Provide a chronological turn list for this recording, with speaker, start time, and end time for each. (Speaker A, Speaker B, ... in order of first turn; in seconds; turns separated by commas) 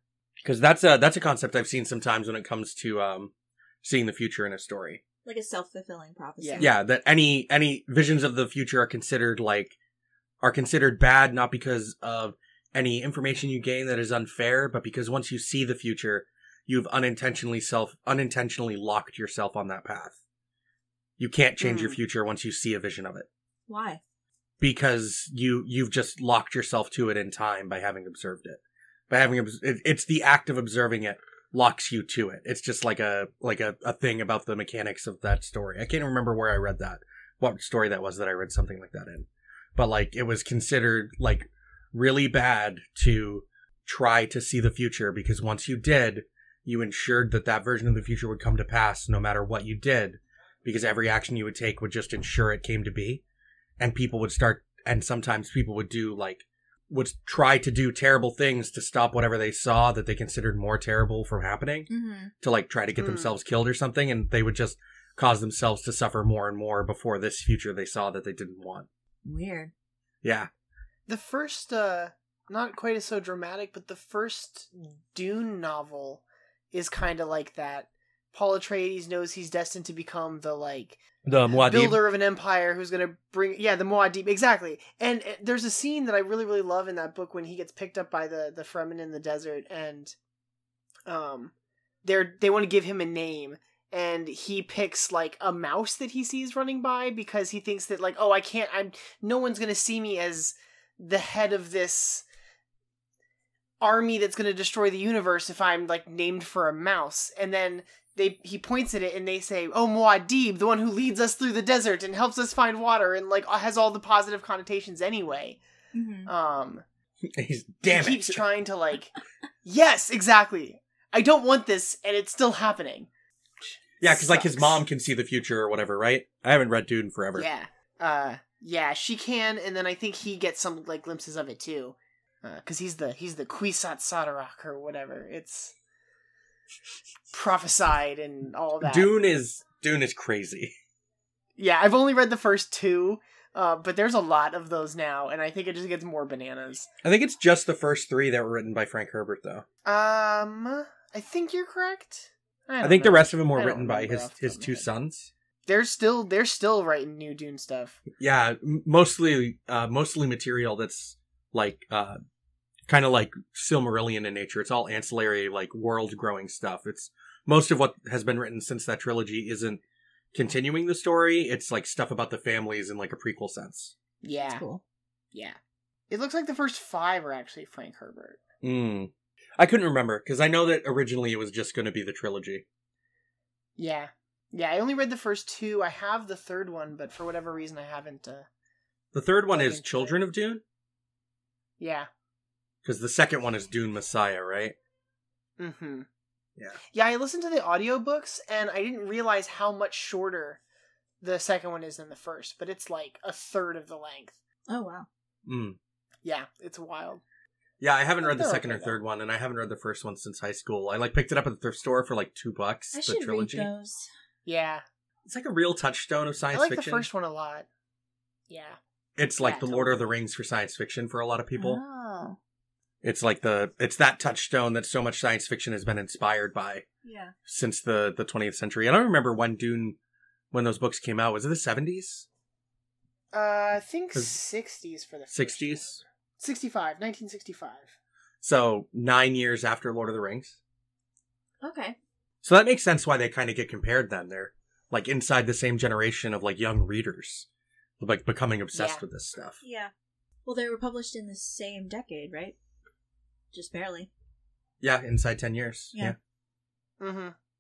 Speaker A: 0.4-3.3, Speaker A: 3.8-5.0, Speaker B: 5.2-6.7, Speaker C: 6.4-6.7, Speaker A: 6.6-9.8, Speaker A: 10.4-20.2, Speaker A: 21.2-23.3, Speaker C: 21.6-22.0, Speaker B: 23.7-24.0, Speaker A: 24.6-53.2, Speaker A: 53.8-61.9, Speaker B: 61.9-62.3, Speaker A: 62.4-68.9, Speaker C: 63.0-63.3, Speaker B: 69.2-69.7, Speaker A: 70.2-70.5, Speaker C: 71.1-90.2, Speaker A: 81.2-82.0, Speaker C: 91.1-91.5, Speaker C: 92.0-102.2, Speaker C: 103.8-115.6, Speaker B: 115.9-116.3, Speaker C: 116.2-116.8, Speaker A: 117.3-118.4, Speaker C: 117.9-119.1, Speaker C: 119.6-123.1, Speaker C: 123.6-124.8, Speaker A: 124.0-127.5, Speaker C: 127.3-135.7, Speaker C: 137.3-139.1, Speaker A: 138.8-140.7, Speaker C: 141.6-146.9, Speaker A: 147.0-149.6, Speaker C: 149.8-154.9, Speaker A: 152.8-155.3, Speaker C: 155.7-158.0, Speaker A: 158.2-162.2, Speaker A: 162.9-169.8, Speaker A: 170.3-173.9, Speaker C: 174.2-174.6, Speaker B: 174.4-174.8, Speaker C: 175.3-175.6, Speaker C: 176.1-178.4, Speaker A: 178.6-182.6, Speaker C: 183.8-188.5, Speaker A: 189.1-190.6, Speaker C: 189.5-190.2, Speaker C: 191.8-192.1, Speaker A: 192.8-194.8, Speaker C: 195.6-196.1, Speaker C: 196.9-200.6, Speaker C: 201.2-204.4, Speaker B: 204.7-205.1, Speaker A: 205.4-205.8, Speaker C: 206.2-207.2, Speaker A: 207.8-213.7, Speaker C: 208.2-209.0, Speaker B: 212.9-214.1, Speaker C: 214.4-214.8, Speaker A: 215.3-217.1, Speaker C: 216.5-217.7, Speaker C: 218.5-218.8, Speaker A: 219.2-221.8, Speaker C: 219.4-220.1, Speaker B: 221.6-222.4, Speaker A: 223.0-226.8, Speaker B: 227.0-227.3, Speaker A: 227.5-230.0, Speaker A: 230.5-232.3, Speaker C: 233.3-237.9, Speaker A: 235.3-236.0, Speaker A: 238.4-240.6, Speaker B: 241.6-241.9, Speaker A: 242.4-247.5, Speaker A: 248.0-249.6, Speaker C: 248.7-249.0, Speaker B: 249.6-249.9, Speaker B: 250.4-252.6, Speaker B: 253.5-254.1, Speaker A: 254.8-256.1, Speaker C: 257.0-257.3